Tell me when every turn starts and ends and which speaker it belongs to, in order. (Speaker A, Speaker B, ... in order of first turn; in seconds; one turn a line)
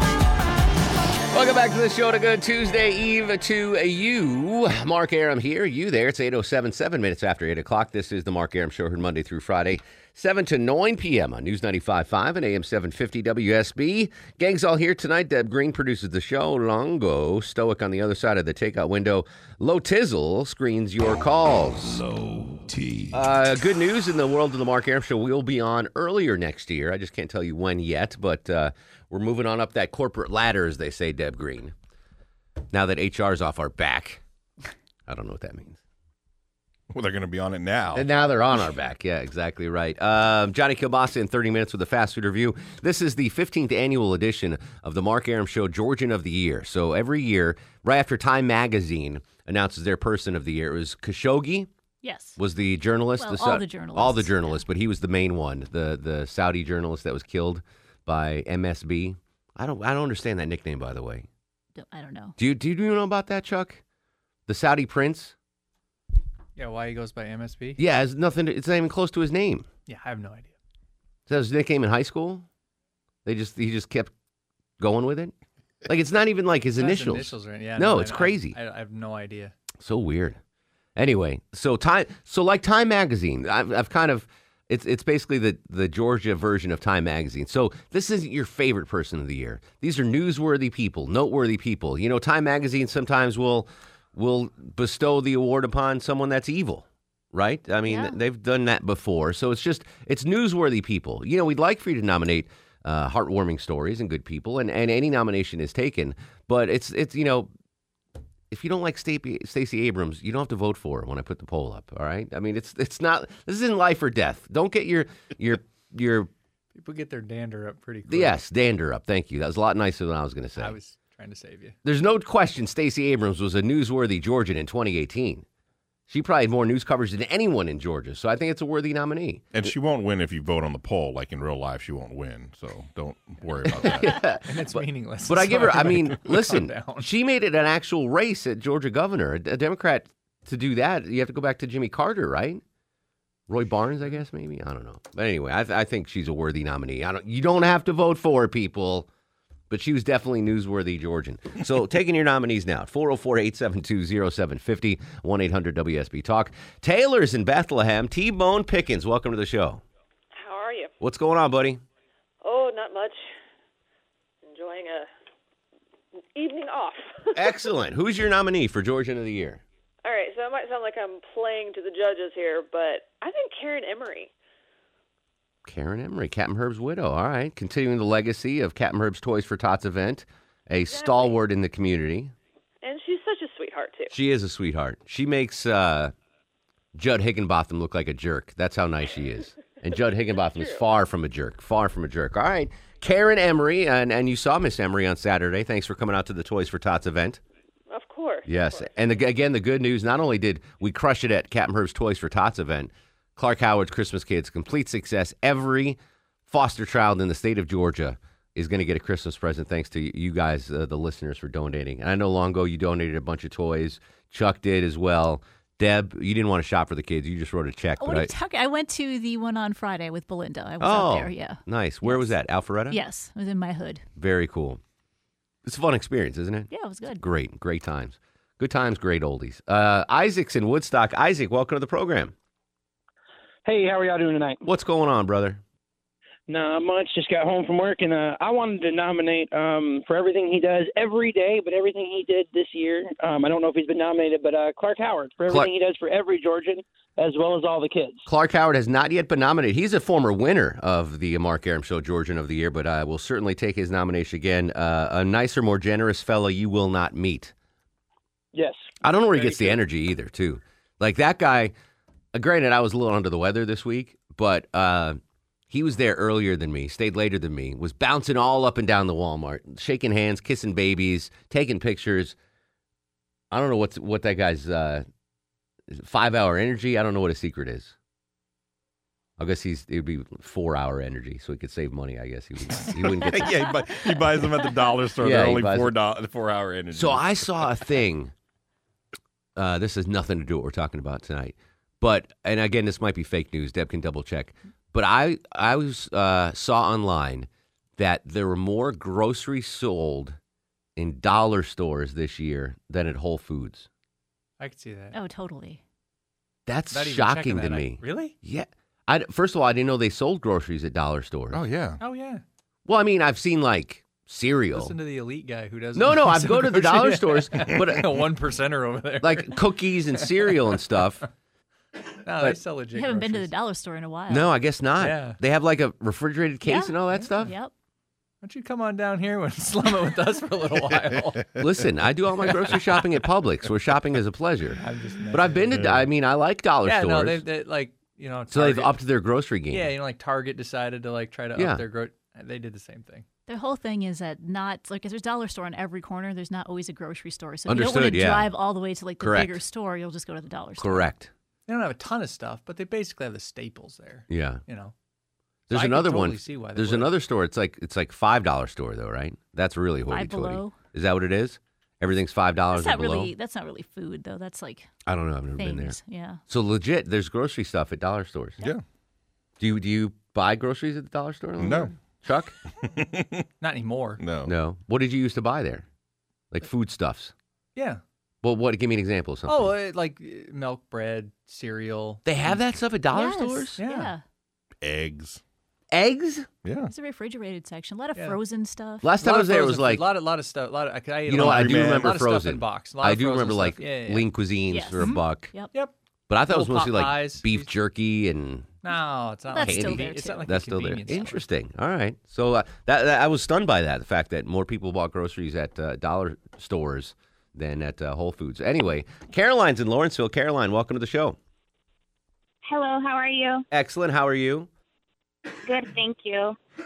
Speaker A: 1.3-22.0
Speaker B: 22.0-23.1
Speaker A: 23.1-31.7
Speaker A: 32.7-34.2
Speaker A: 35.1-35.8
Speaker B: 36.9-38.1
Speaker A: 37.9-51.7
Speaker C: 52.0-52.4
Speaker A: 52.4-61.3
Speaker C: 53.2-54.6
Speaker C: 61.8-62.4
Speaker A: 62.4-63.8
Speaker A: 64.5-65.3
Speaker D: 66.5-67.8
Speaker A: 67.8-69.7
Speaker D: 69.9-70.5
Speaker A: 71.3-72.5
Speaker A: 73.2-74.1
Speaker A: 74.8-75.3
Speaker A: 75.8-78.6
Speaker D: 76.8-79.5
Speaker A: 79.8-80.4
Speaker A: 81.0-107.5
Speaker C: 97.8-98.2
Speaker A: 108.5-116.3
Speaker D: 116.8-118.4
Speaker A: 118.1-120.7
Speaker D: 120.6-121.8
Speaker A: 121.8-125.4
Speaker A: 126.1-129.5
Speaker B: 129.5-134.1
Speaker A: 133.7-142.6
Speaker D: 134.4-137.1
Speaker A: 143.5-149.1
Speaker A: 149.7-159.8
Speaker E: 160.3-160.9
Speaker A: 161.0-161.8
Speaker E: 162.4-163.2
Speaker E: 164.4-165.1
Speaker E: 166.3-167.4
Speaker A: 167.3-169.6
Speaker E: 170.0-174.3
Speaker A: 175.6-182.3
Speaker E: 180.9-181.3
Speaker E: 182.8-184.1
Speaker A: 184.1-186.1
Speaker A: 186.9-197.4
Speaker E: 190.6-190.8
Speaker E: 197.9-198.9
Speaker A: 198.4-218.3
Speaker C: 218.0-222.3
Speaker A: 220.8-223.0
Speaker C: 222.9-224.1
Speaker A: 224.2-224.8
Speaker A: 225.6-232.3
Speaker C: 226.7-227.2
Speaker F: 233.7-234.6
Speaker A: 234.6-235.6
Speaker F: 236.5-248.3
Speaker A: 248.2-257.5
Speaker F: 258.5-259.7
Speaker A: 259.0-261.7
Speaker A: 262.3-265.2
Speaker A: 265.7-272.4
Speaker A: 273.5-275.0
Speaker A: 275.9-277.9
Speaker A: 279.4-283.6
Speaker B: 283.1-287.6
Speaker A: 285.2-285.9
Speaker A: 286.9-288.3
Speaker A: 289.6-300.4
Speaker A: 300.9-303.9
Speaker D: 304.6-305.1
Speaker C: 305.1-305.8
Speaker A: 306.7-311.6
Speaker D: 306.9-308.3
Speaker B: 311.5-312.0
Speaker D: 312.0-312.4
Speaker A: 312.9-314.9
Speaker D: 314.7-319.6
Speaker A: 315.9-318.1
Speaker A: 319.2-321.2
Speaker D: 320.1-320.5
Speaker D: 322.2-323.5
Speaker C: 322.8-324.5
Speaker A: 324.3-327.5
Speaker D: 325.0-325.4
Speaker C: 326.6-327.7
Speaker D: 328.4-331.4
Speaker A: 331.6-334.8
Speaker D: 334.8-335.8
Speaker A: 335.3-337.4
Speaker B: 335.7-336.1
Speaker D: 336.8-339.0
Speaker A: 338.5-339.9
Speaker D: 339.7-343.2
Speaker A: 341.6-341.8
Speaker C: 343.5-351.1
Speaker A: 347.7-348.5
Speaker A: 349.2-349.6
Speaker A: 350.8-351.3
Speaker D: 351.7-354.9
Speaker A: 354.3-354.6
Speaker A: 355.7-363.3
Speaker D: 355.7-357.1
Speaker C: 360.1-360.8
Speaker C: 362.7-364.9
Speaker A: 365.1-368.6
Speaker C: 365.6-366.4
Speaker A: 369.6-372.5
Speaker B: 371.6-371.9
Speaker B: 372.9-373.4
Speaker D: 373.6-374.2
Speaker B: 374.2-374.5
Speaker A: 374.4-375.8
Speaker A: 376.5-377.3
Speaker D: 377.8-378.0
Speaker A: 378.4-379.7
Speaker D: 379.5-382.6
Speaker A: 382.2-383.8
Speaker C: 383.1-384.2
Speaker D: 383.8-384.1
Speaker B: 384.8-385.4
Speaker A: 385.9-386.5
Speaker B: 386.6-386.9
Speaker C: 386.9-389.1
Speaker D: 388.1-388.4
Speaker A: 389.0-390.1
Speaker D: 389.2-394.3
Speaker A: 391.3-395.5
Speaker B: 391.3-392.1
Speaker C: 394.7-395.7
Speaker A: 396.3-398.8
Speaker D: 396.5-397.7
Speaker D: 398.8-401.4
Speaker C: 399.5-400.6
Speaker A: 399.6-411.4
Speaker G: 412.6-413.6
Speaker A: 413.7-414.7
Speaker G: 415.6-416.6